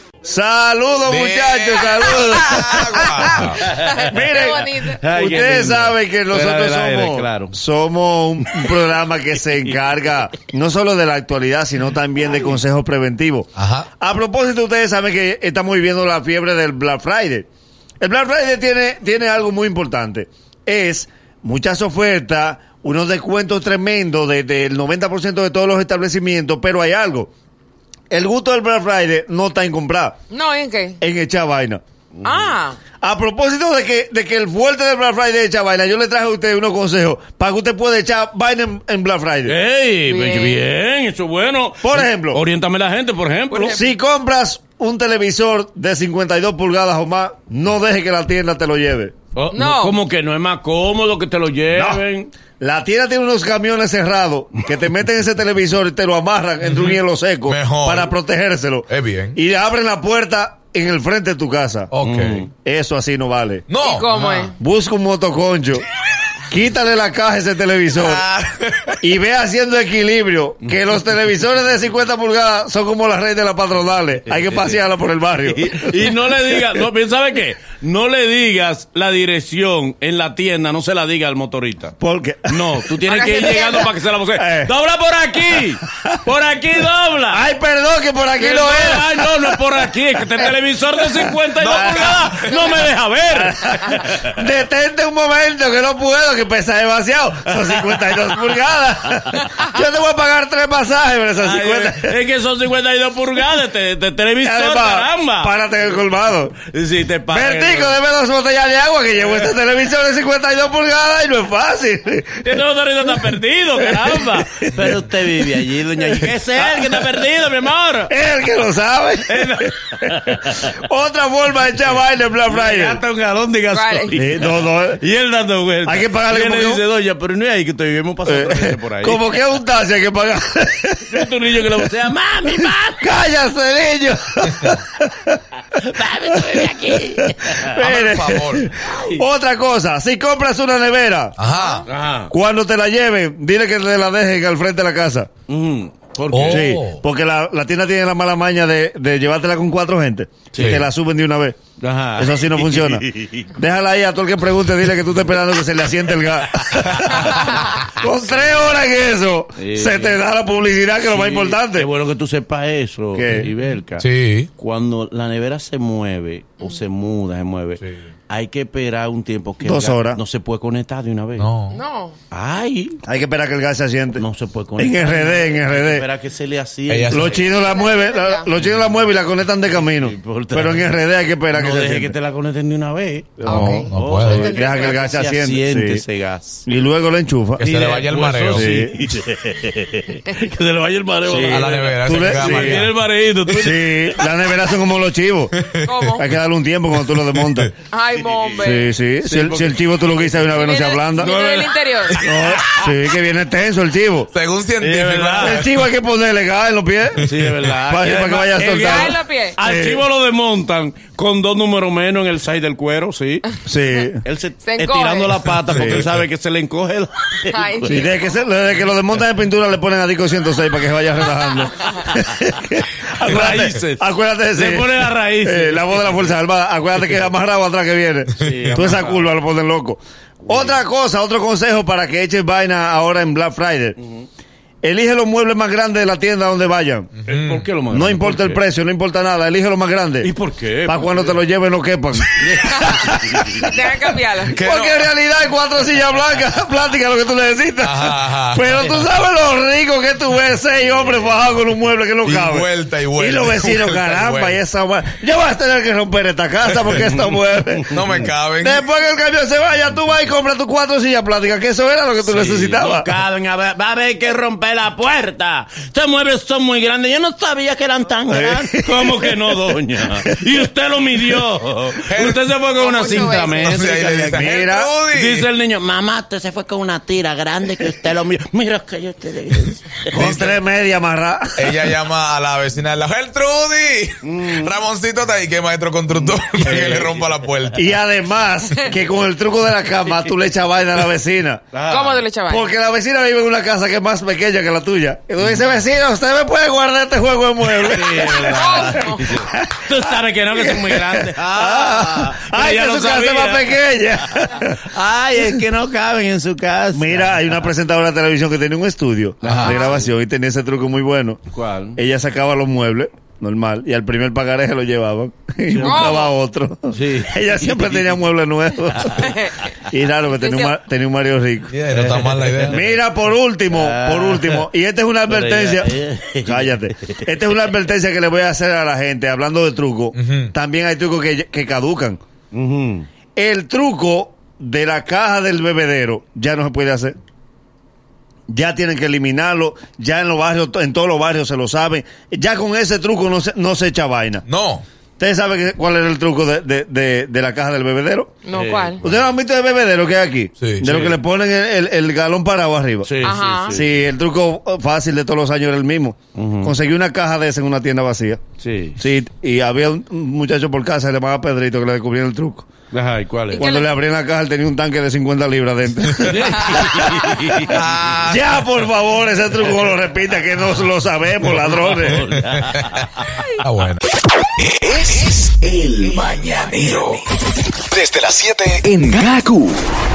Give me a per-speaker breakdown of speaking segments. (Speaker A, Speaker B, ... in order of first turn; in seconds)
Speaker A: 0.2-3.4, 4.0-17.5, 18.0-27.3, 28.1-30.2, 31.0-31.8, 33.0-39.5, 41.8-42.4, 43.5-49.1, 51.7-52.0, 52.6-61.9, 62.6-63.7, 64.6-65.8, 66.5-68.2, 69.0-76.7, 82.0-82.8, 84.4-84.7, 87.3-90.5, 91.0-102.2, 104.4-106.6, 107.3-117.2, 118.1-123.0, 124.2-125.0, 125.8-126.8, 128.3-131.9, 132.6-135.4, 136.3-141.4, 142.3-145.3, 146.5-151.6, 152.2-161.9, 163.2-163.5, 169.6-170.2, 173.0-174.2, 174.8-176.1, 177.1-182.2, 183.4-186.0, 186.7-187.7, 188.5-189.0, 191.3-192.9, 193.5-195.6, 196.2-197.7, 198.6-201.4, 202.2-204.3, 205.4-207.3, 207.8-210.1, 213.7-214.2, 215.7-216.1, 217.9-234.0, 234.8-237.1, 237.9-240.3, 240.9-257.9, 258.6-263.1, 268.3-269.7, 274.3-274.9, 280.1-281.9, 287.8-291.7, 292.5-304.8, 306.9-311.4, 311.9-321.7, 322.7-332.2, 333.4-337.1, 338.5-344.4, 345.2-348.3, 349.0-358.4, 359.0-362.7, 363.6-372.3
Speaker B: 1.1-3.6, 13.6-13.9, 56.6-58.1, 58.9-59.4, 61.9-62.4, 63.7-64.5, 68.0-69.0, 137.8-138.7, 141.4-141.8, 146.3-147.0, 164.0-164.5, 171.4-171.8, 176.9-177.3, 183.6-184.5, 187.6-188.7, 191.4-192.9, 195.6-195.9, 197.2-197.7, 204.3-205.6, 228.4-228.8, 237.2-237.7, 244.5-245.1, 247.8-248.9, 252.2-254.6, 257.9-258.8, 272.0-272.4, 273.5-275.5, 280.1-280.6, 281.6-287.9, 309.5-309.8, 321.7-322.9, 330.1-330.5, 344.5-344.9, 350.6-350.9, 367.6-368.4, 372.2-374.0, 376.3-377.1
Speaker C: 3.3-3.9, 4.9-7.6, 32.2-32.5, 39.5-43.8, 49.3-52.3, 62.0-62.5, 74.4-74.7, 75.4-82.0, 82.5-87.4, 88.4-94.3, 97.6-98.3, 101.4-105.5, 106.5-108.0, 109.2-109.5, 112.4-118.1, 119.2-120.7, 122.5-129.2, 131.1-133.1, 135.7-137.8, 138.8-139.2, 141.9-142.3, 145.5-146.8, 150.5-150.8, 151.8-153.5, 159.6-160.2, 161.0-171.5, 172.3-173.0, 174.2-177.5, 179.7-180.9, 181.5-186.6, 187.6-194.0, 198.3-198.7, 199.2-200.5, 201.2-202.8, 204.8-205.7, 207.2-213.5, 214.2-218.1, 223.2-226.3, 228.4-229.3, 230.5-230.8, 237.3-238.6, 240.2-241.4, 242.4-243.7, 250.9-251.4, 256.9-258.3, 262.2-274.6, 275.1-280.0, 284.2-284.8, 286.1-287.5, 291.7-292.2, 297.7-307.6, 309.4-310.1, 311.5-312.0, 315.7-316.1, 316.9-318.1, 321.9-323.0, 323.7-324.6, 325.3-327.2, 332.5-333.1, 348.5-349.2, 350.9-351.2, 353.0-354.0, 356.3-356.8, 358.6-359.0, 362.9-363.7, 366.2-367.8, 371.5-373.2
Speaker D: 3.7-5.0, 30.3-31.0, 32.2-32.8, 40.1-40.6, 43.5-43.8, 49.5-50.0, 63.8-64.5, 83.1-83.9, 123.7-124.2, 141.6-141.9, 171.7-172.2, 177.6-178.5, 183.5-184.9, 195.8-196.3, 197.9-198.9, 200.5-202.2, 208.7-209.6, 214.6-215.6, 217.5-218.1, 242.7-244.6, 272.8-273.8, 291.9-292.7, 298.3-299.3, 309.7-310.0, 315.8-316.3, 319.2-319.5, 320.3-320.7, 348.4-349.0, 353.2-353.8, 363.5-363.9
Speaker E: 374.8-377.2, 377.9-379.8